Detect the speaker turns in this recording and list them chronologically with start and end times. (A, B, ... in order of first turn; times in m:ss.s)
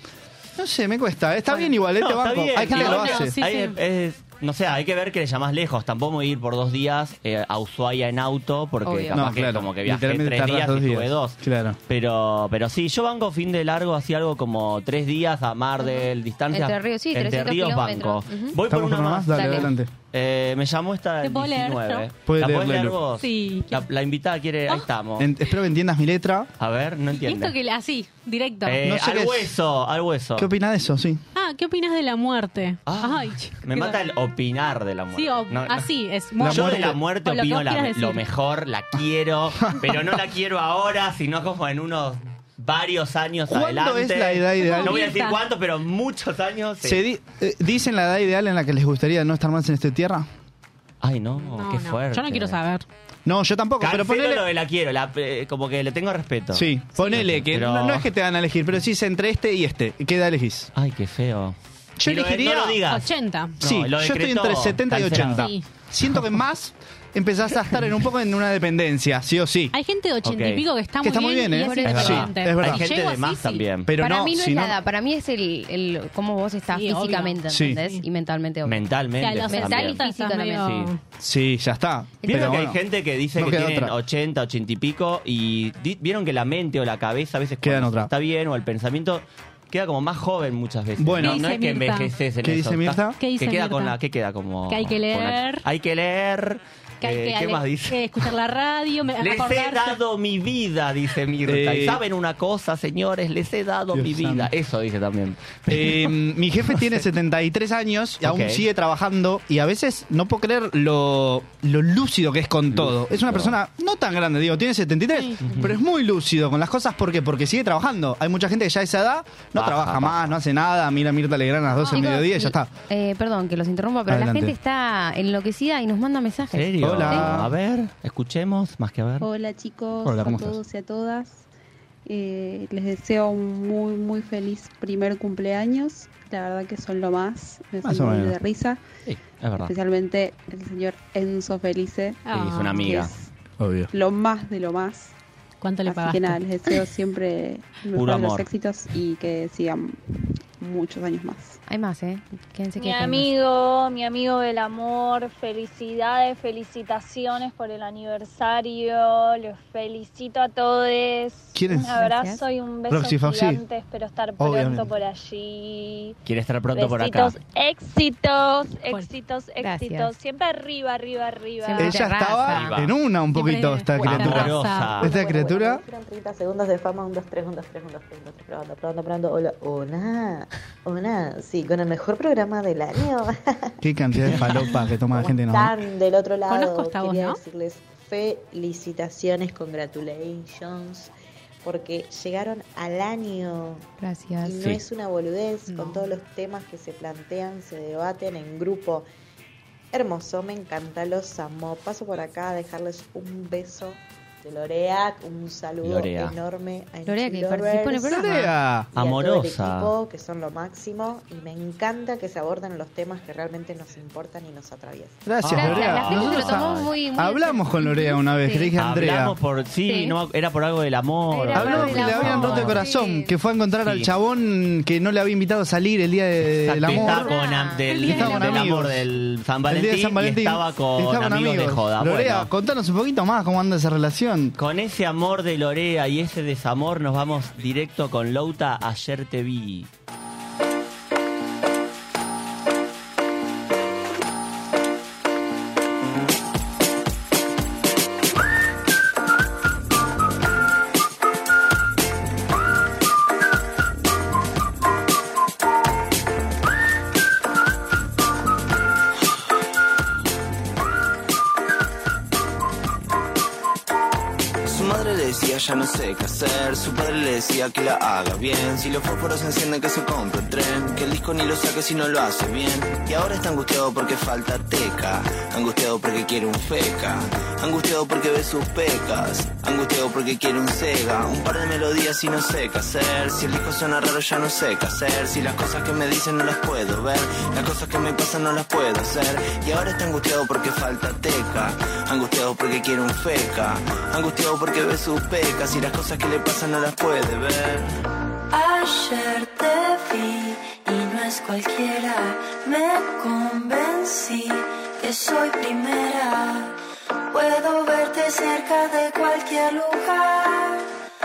0:00.6-0:03.4 A
0:01.9-0:25.3 B
0:02.6-0:03.8 C
0:08.8-0:09.2 D
0:09.1-0:11.8 A
0:15.8-0:18.6 D
0:18.7-0:19.9 A
0:19.3-0:19.7 D
0:21.2-0:22.1 C
0:22.2-0:23.0 A
0:23.2-0:23.8 C
0:25.2-0:26.5 A
0:26.6-0:27.6 B
0:27.1-0:28.8 C
0:28.6-0:30.5 B
0:28.8-0:29.5 A
0:30.4-0:31.2 A
0:31.3-0:34.0 C
0:32.8-0:47.0 B
0:35.1-0:38.2 C
0:36.4-0:37.0 A
0:39.6-0:40.2 A
0:43.5-0:45.0 A
0:44.6-0:45.4 C
0:46.8-0:50.3 A
0:51.0-0:52.6 B
0:51.4-0:52.8 C
0:53.2-0:54.4 A
0:53.8-0:58.0 B
0:56.5-1:00.7 A
1:00.7-1:05.5 B
1:02.0-1:02.8 A
1:02.9-1:03.6 C
1:03.6-1:09.8 A
1:05.3-1:05.6 C
1:09.7-1:13.7 C
1:10.2-1:10.6 B
1:11.0-1:12.8 A
1:11.8-1:13.9 B
1:13.8-1:14.8 A
1:14.0-1:18.9 D
1:16.7-1:18.0 C
1:17.5-1:17.8 A
1:18.6-1:20.0 B
1:19.2-1:21.0 C
1:19.5-1:20.7 D
1:20.6-1:20.9 B
1:21.2-1:22.8 A
1:22.2-1:22.6 D
1:22.2-1:38.3 B
1:23.3-1:23.9 A
1:27.6-1:28.1 A
1:31.0-1:31.4 A
1:31.2-1:32.2 C
1:32.4-1:33.2 A
1:33.2-1:34.0 C
1:34.7-1:35.6 C
1:37.0-1:40.0 C
1:39.2-1:46.2 B
1:41.4-1:42.0 A
1:43.9-1:44.5 A
1:45.7-2:02.7 A
1:48.2-1:48.6 B
1:52.7-1:53.6 B
1:55.4-1:55.7 B
1:59.5-2:00.3 B
2:01.8-2:07.3 D
2:04.1-2:04.5 A
2:06.5-2:09.3 B
2:06.8-2:07.5 A
2:09.2-2:11.4 E
2:10.0-2:10.6 A
2:12.0-2:18.8 E
2:17.8-2:18.3 A
2:19.0-2:19.7 B
2:19.6-2:22.2 E
2:22.3-2:23.0 C
2:22.3-2:23.1 B
2:22.8-2:23.3 E
2:23.6-2:23.9 A
2:23.9-2:25.1 E
2:25.6-2:26.4 C
2:25.8-2:30.0 E
2:27.9-2:28.5 B
2:30.6-2:31.6 E
2:31.7-2:33.3 D
2:32.8-2:46.2 F
2:41.5-2:42.0 A
2:41.9-2:42.4 D
2:42.9-2:43.6 A
2:44.4-2:44.9 A
2:46.2-2:47.4 B
2:46.7-2:52.0 F
2:49.6-2:50.1 D
2:51.7-2:52.7 D
2:51.8-2:55.8 A
2:52.4-2:52.9 B
2:53.3-2:55.0 C
2:54.0-2:55.1 B
2:55.0-3:03.7 G
3:03.8-3:05.8 A
3:04.3-3:11.1 G
3:06.5-3:07.4 C
3:11.6-3:13.9 G
3:14.0-3:14.7 D
3:14.4-3:19.1 G
3:15.7-3:16.2 C
3:19.9-3:28.3 G
3:25.8-3:26.4 B
3:27.0-3:28.5 D
3:28.0-3:28.9 A
3:28.9-3:29.9 B
3:28.9-3:35.2 G
3:35.2-3:39.4 A
3:35.4-3:36.9 B
3:35.5-3:38.7 D
3:38.8-3:42.8 B
3:39.8-3:40.2 D
3:41.3-3:43.3 D
3:41.5-3:47.3 A
3:43.8-3:44.1 B
3:46.5-3:52.5 B
3:47.0-3:48.1 D
3:47.9-3:48.7 C
3:48.0-3:49.0 A
3:49.7-3:54.6 A
3:54.6-3:59.9 B
4:24.6-4:57.8 H
4:58.5-5:06.8 I
5:07.3-5:10.9 I